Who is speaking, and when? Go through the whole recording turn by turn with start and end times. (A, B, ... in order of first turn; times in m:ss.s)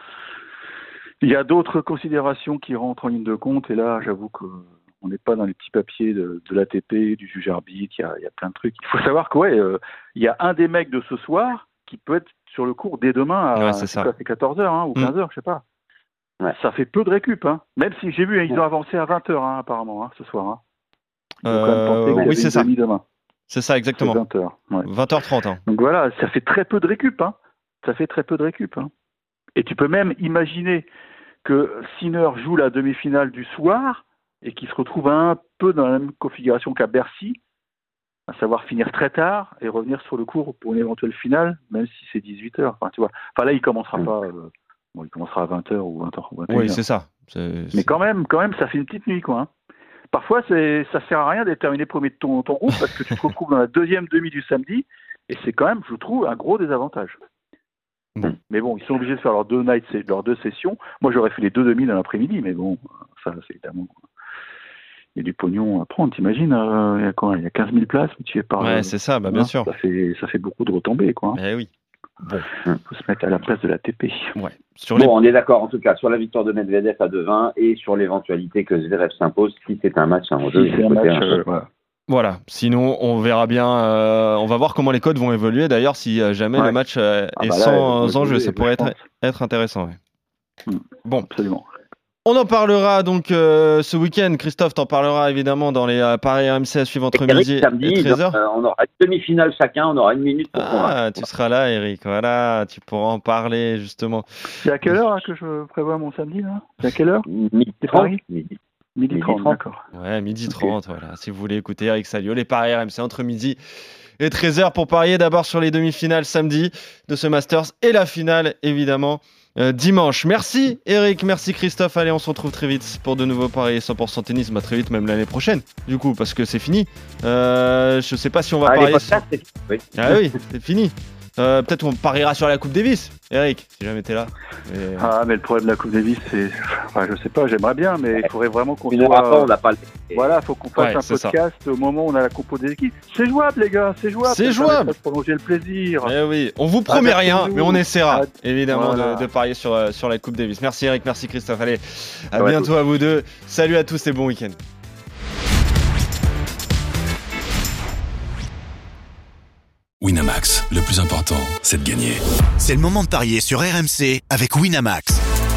0:01.2-0:15.6 A
0:13.6-0:14.1 B
0:16.5-0:20.6 A
0:21.4-0:23.0 A
0:21.4-0:22.7 B
0:23.5-0:24.2 B
0:23.9-0:24.9 A
0:24.8-0:25.6 B
0:25.7-0:28.9 A
0:29.6-0:30.9 A
0:31.4-0:37.4 A
0:38.3-0:46.8 A
0:46.5-0:47.9 B
0:47.7-0:49.5 A
0:50.1-0:57.2 A
0:58.5-1:04.0 A
1:05.2-1:11.4 A
1:08.6-1:09.7 B
1:11.4-1:11.7 B
1:12.8-1:14.4 A
1:14.4-1:15.1 B
1:15.0-1:21.4 C
1:20.4-1:21.7 A
1:22.1-1:30.0 B
1:27.4-1:29.0 A
1:30.7-1:31.7 A
1:32.2-1:38.4 B
1:37.1-1:41.2 C
1:40.6-1:44.3 B
1:44.6-1:47.3 A
1:47.3-1:48.6 C
1:47.8-1:48.2 A
1:49.0-1:49.8 A
1:49.1-1:49.6 C
1:49.9-1:53.6 B
1:54.2-2:09.2 B
2:08.6-2:10.2 C
2:10.0-2:15.1 B
2:15.0-2:19.5 A
2:18.9-2:20.3 C
2:20.1-2:26.1 A
2:20.8-2:21.4 B
2:24.2-2:24.9 B
2:26.0-2:34.6 B
2:26.9-2:29.2 A
2:32.4-2:32.7 C
2:40.0-2:42.2 D
2:42.6-2:45.2 E